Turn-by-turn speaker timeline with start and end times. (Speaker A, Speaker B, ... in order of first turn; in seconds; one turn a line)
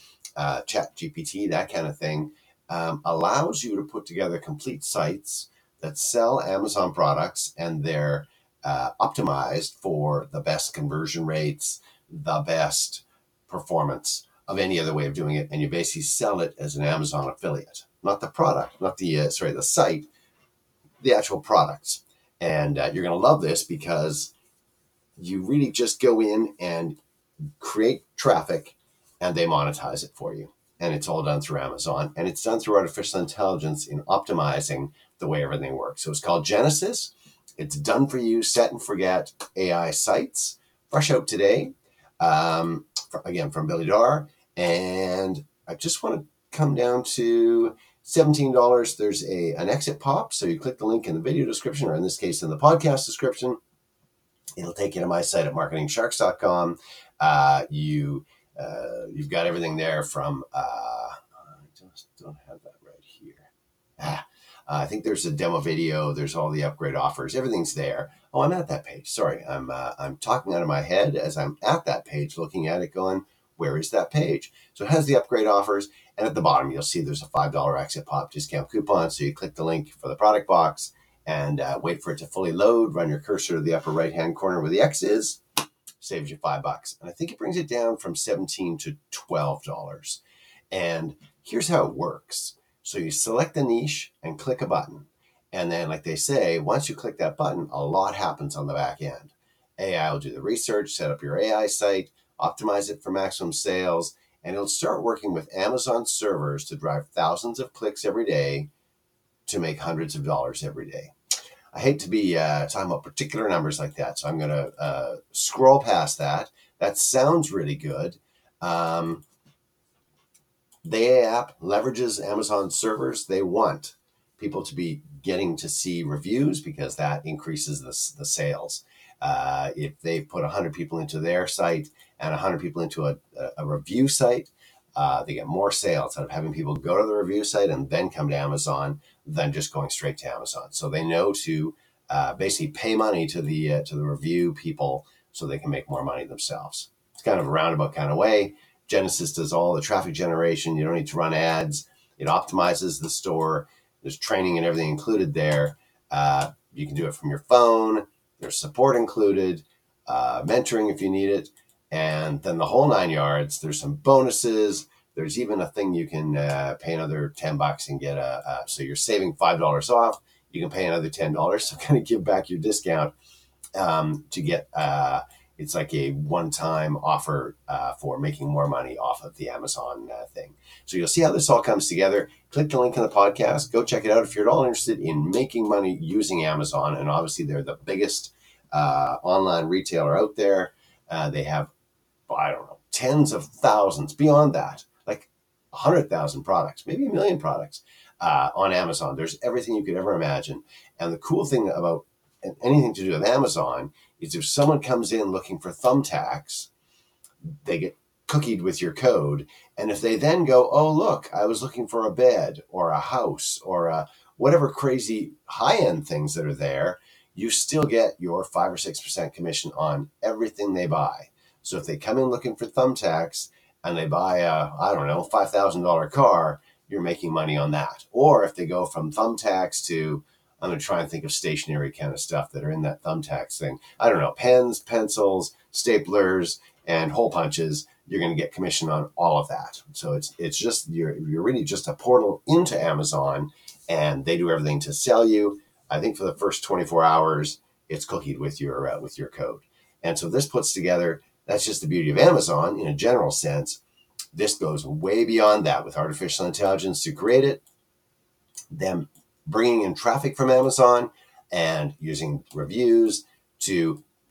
Speaker A: 0.4-20.1
Speaker A: 21.0-24.3
Speaker A: 25.2-27.0
Speaker A: 27.6-53.6
Speaker A: 54.6-85.4
Speaker A: 86.0-90.2
Speaker A: 90.7-108.7
Speaker A: 109.5-111.1
Speaker A: 111.7-119.2
Speaker A: 120.8-173.1
Speaker A: 173.8-191.7
Speaker A: 192.3-206.7
Speaker A: 207.6-253.8
Speaker A: 254.3-257.6
Speaker A: 258.7-264.0